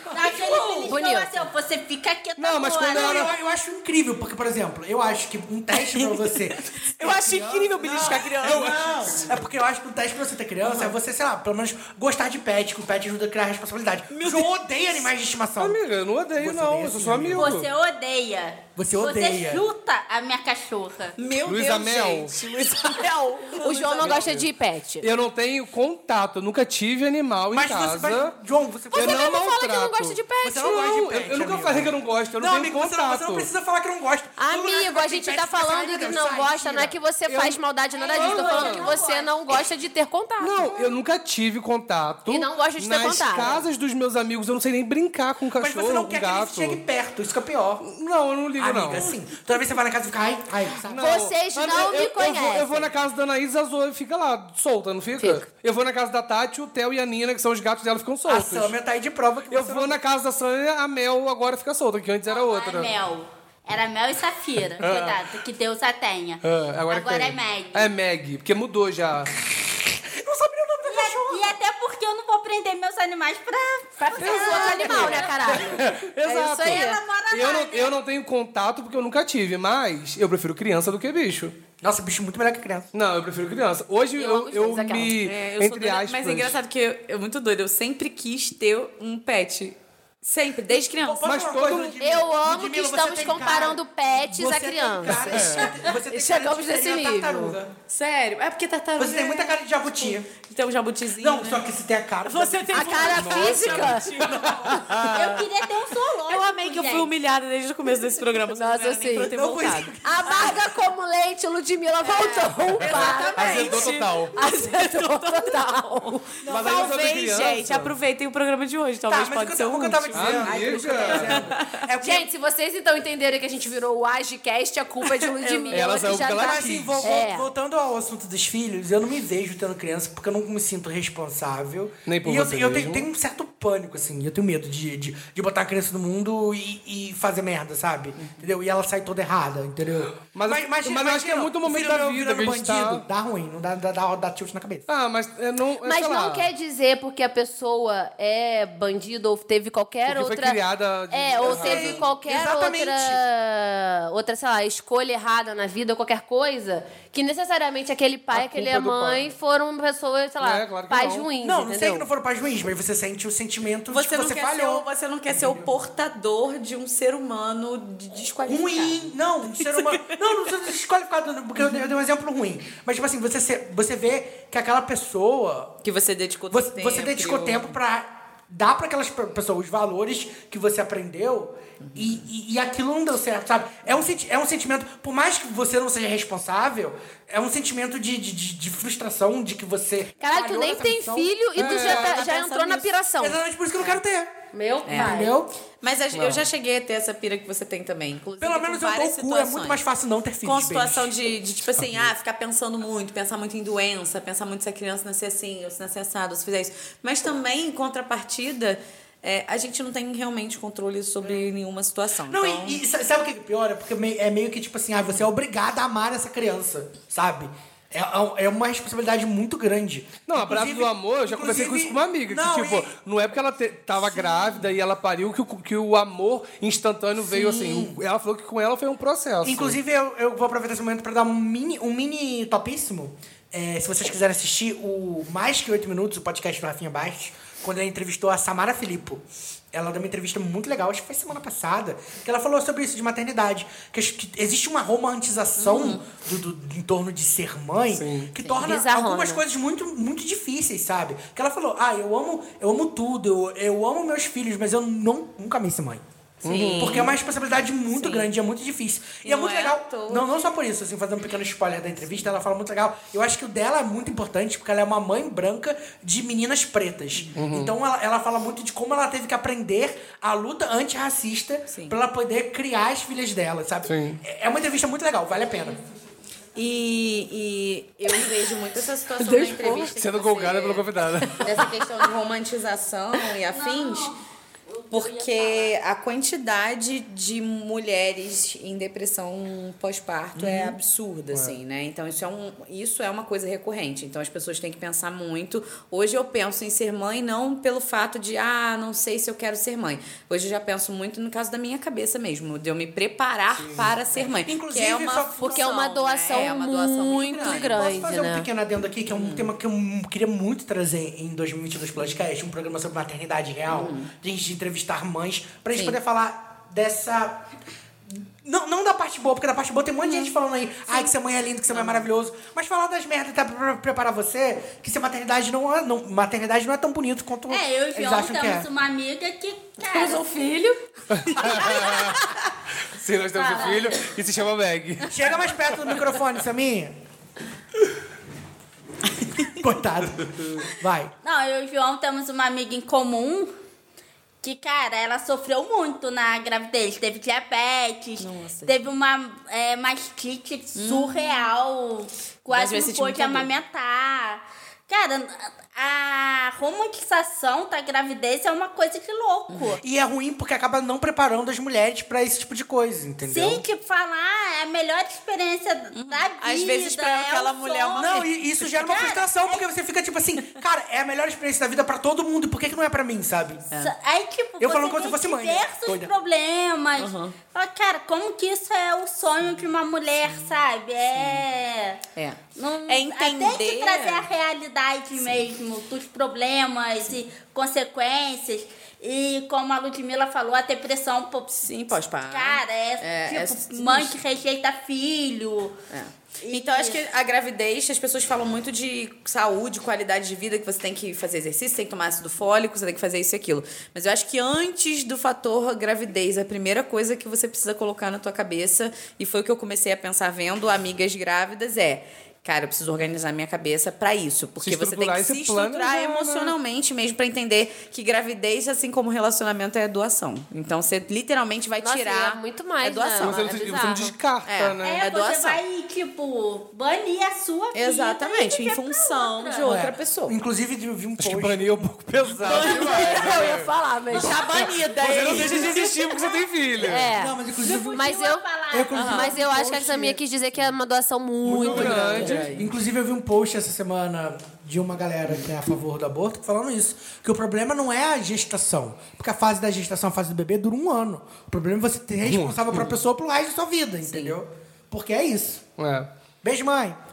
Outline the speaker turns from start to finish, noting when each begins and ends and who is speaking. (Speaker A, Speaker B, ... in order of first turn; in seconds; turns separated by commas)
Speaker A: 0.1-3.4, Speaker B: 0.1-0.8, Speaker C: 0.2-0.8, Speaker D: 0.8-1.5, Speaker E: 2.4-3.3, Speaker B: 2.9-15.8, Speaker C: 5.9-9.3, Speaker E: 7.9-9.3, Speaker C: 10.6-10.9, Speaker C: 14.1-14.6, Speaker E: 15.6-17.7, Speaker B: 16.4-17.6, Speaker A: 17.4-21.2, Speaker B: 18.8-19.6, Speaker C: 21.2-24.4, Speaker E: 21.4-22.4, Speaker D: 23.6-25.1, Speaker E: 24.0-24.5, Speaker E: 25.0-28.3, Speaker B: 27.5-29.3, Speaker E: 28.9-33.5, Speaker D: 28.9-30.7, Speaker B: 30.4-37.0, Speaker D: 34.4-40.9, Speaker E: 37.3-37.6, Speaker A: 37.9-39.5, Speaker E: 38.1-38.9, Speaker E: 40.4-46.8, Speaker D: 42.3-43.6, Speaker B: 45.6-47.9, Speaker E: 47.8-49.1, Speaker B: 48.6-51.1, Speaker E: 50.9-58.7, Speaker D: 50.9-52.9, Speaker D: 55.2-55.4, Speaker B: 58.3-60.0, Speaker E: 59.5-62.9, Speaker A: 62.3-67.9, Speaker E: 64.8-65.2, Speaker E: 66.4-69.3, Speaker B: 69.8-71.6, Speaker A: 70.8-75.8, Speaker D: 74.0-77.0, Speaker E: 74.2-81.6, Speaker A: 76.7-78.0, Speaker B: 81.8-82.9, Speaker E: 82.9-86.6, Speaker D: 84.2-85.2, Speaker C: 85.2-91.4, Speaker B: 90.8-97.7, Speaker E: 91.2-92.0, Speaker D: 91.9-97.6, Speaker E: 95.2-95.8, Speaker C: 97.8-101.6, Speaker B: 99.0-100.3, Speaker B: 101.2-105.0, Speaker C: 102.2-105.3, Speaker D: 102.7-104.1, Speaker E: 103.1-104.0, Speaker E: 104.7-105.4, Speaker A: 105.0-107.1, Speaker C: 106.2-110.6, Speaker D: 108.5-109.3, Speaker B: 109.3-110.7, Speaker D: 110.0-116.4, Speaker C: 112.0-115.8, Speaker E: 112.8-114.3, Speaker A: 112.8-113.9, Speaker B: 116.4-116.9, Speaker E: 116.5-118.0, Speaker C: 116.5-121.8, Speaker B: 119.1-122.3, Speaker E: 120.1-121.5, Speaker D: 122.0-127.5, Speaker C: 125.0-126.1, Speaker E: 125.7-127.1, Speaker B: 126.4-144.9, Speaker E: 132.1-133.1, Speaker E: 140.2-143.1, Speaker E: 144.9-146.5, Speaker D: 145.8-150.6, Speaker E: 150.1-152.1, Speaker D: 151.1-162.1, Speaker B: 151.4-153.2, Speaker E: 158.3-159.3, Speaker E: 160.4-161.3, Speaker B: 161.4-165.7, Speaker C: 163.9-170.6, Speaker B: 168.4-175.8, Speaker C: 175.8-177.8, Speaker B: 176.5-191.4, Speaker C: 181.8-182.2, Speaker D: 190.2-193.4, Speaker E: 191.6-192.2, Speaker C: 191.6-192.9, Speaker B: 193.2-194.3, Speaker D: 194.5-195.4, Speaker C: 194.8-199.8, Speaker B: 194.9-195.5, Speaker E: 196.1-196.5, Speaker B: 198.4-201.1, Speaker C: 200.4-212.8, Speaker E: 201.8-202.1, Speaker B: 212.3-222.9, Speaker E: 220.3-229.8, Speaker B: 227.2-228.0, Speaker B: 229.4-256.0, Speaker C: 245.6-246.1, Speaker E: 247.9-248.3, Speaker D: 248.6-249.4, Speaker C: 256.4-257.2, Speaker E: 256.4-257.1, Speaker B: 256.8-275.8, Speaker C: 257.9-258.3, Speaker C: 259.2-260.6, Speaker E: 267.3-267.7, Speaker C: 271.7-272.0, Speaker E: 273.9-274.2, Speaker C: 276.6-284.1, Speaker E: 279.2-281.8, Speaker A: 283.5-284.1, Speaker A: 284.9-285.7, Speaker C: 284.9-308.0, Speaker B: 290.4-290.8, Speaker E: 303.6-304.0, Speaker B: 304.4-305.8, Speaker D: 305.4-308.5, Speaker B: 307.2-317.5, Speaker C: 309.1-309.5, Speaker C: 313.7-314.1, Speaker B: 318.1-328.7, Speaker C: 321.7-322.1, Speaker A: 327.5-330.2, Speaker D: 329.9-331.8, Speaker E: 331.1-335.2, Speaker A: 333.5-333.9, Speaker B: 335.1-337.0, Speaker B: 339.4-341.1, Speaker A: 341.2-343.5, Speaker A: 344.4-359.8, Speaker C: 348.2-348.8, Speaker C: 350.8-351.5, Speaker C: 352.5-353.5, Speaker C: 359.5-359.8, Speaker B: 359.8-363.6, Speaker A: 363.3-369.7, Speaker C: 365.9-368.3, Speaker B: 368.0-373.7, Speaker A: 373.8-382.0, Speaker B: 374.6-376.1, Speaker C: 377.0-377.4, Speaker C: 381.2-381.4, Speaker C: 382.2-384.3, Speaker A: 382.6-391.7, Speaker C: 391.6-394.1, Speaker A: 392.2-395.8, Speaker C: 395.9-423.4, Speaker A: 396.4-397.0, Speaker E: 414.6-416.6, Speaker D: 421.8-424.1, Speaker E: 423.2-425.1, Speaker C: 424.4-425.6, Speaker A: 424.8-429.7, Speaker C: 427.7-430.4, Speaker B: 429.6-433.3, Speaker E: 431.2-437.1, Speaker C: 432.4-433.4, Speaker D: 432.7-434.4, Speaker C: 434.1-436.0, Speaker A: 435.6-436.5, Speaker D: 436.8-438.5, Speaker B: 437.1-438.2, Speaker A: 437.6-439.4, Speaker B: 438.7-440.2, Speaker C: 438.9-439.3, Speaker D: 439.0-442.4, Speaker E: 441.5-442.5, Speaker B: 441.5-455.6, Speaker C: 441.6-442.7, Speaker E: 452.2-452.9, Speaker C: 454.1-454.4, Speaker E: 455.8-456.1, Speaker B: 456.4-457.0